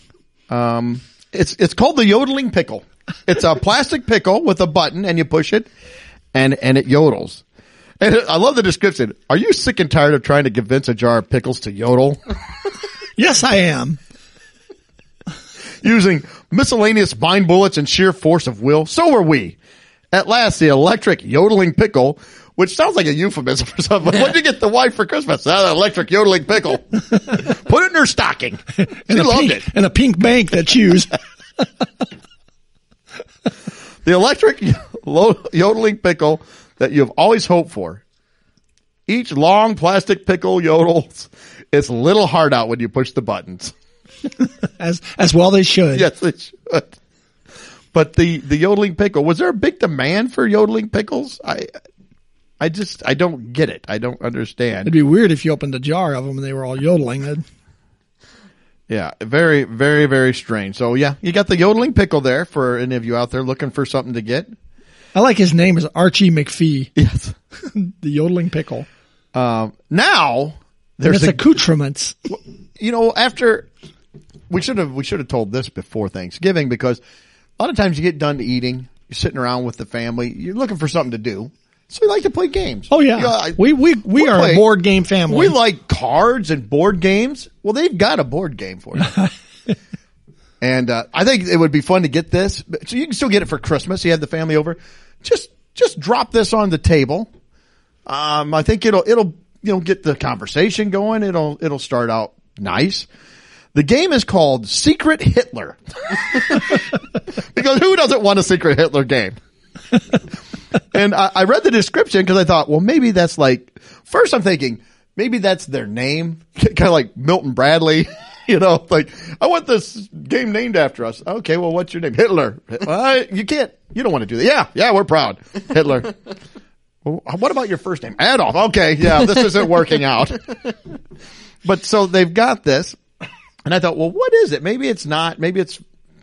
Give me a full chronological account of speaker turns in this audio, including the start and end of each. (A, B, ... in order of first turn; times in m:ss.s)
0:00.5-0:05.7 A
0:06.3-0:07.4 A
0:08.0-0:12.2 A
0:13.2-0:14.0 B
0:15.8-0:19.6 A
0:20.1-0:29.7 A
0:29.1-0:31.1 B
0:34.0-0:38.0 A
0:39.1-0:43.7 A
0:44.8-0:46.1 B
0:45.9-0:47.0 A
0:47.9-0:51.7 A
0:52.6-0:54.9 A
0:54.9-0:57.4 B
0:58.9-1:04.5 A
1:05.2-1:06.9 B
1:07.0-1:07.4 A
1:07.6-1:08.9 B
1:09.3-1:11.4 A
1:11.0-1:12.2 B
1:12.3-1:13.7 A
1:14.5-1:17.0 A
1:17.6-1:24.6 A
1:22.9-1:25.5 B
1:25.3-1:29.2 A
1:30.6-1:37.3 A
1:38.1-1:43.1 A
1:43.7-1:49.4 A
1:50.9-2:06.2 A
2:07.0-2:10.5 A
2:11.6-2:13.0 A
2:13.7-2:15.8 A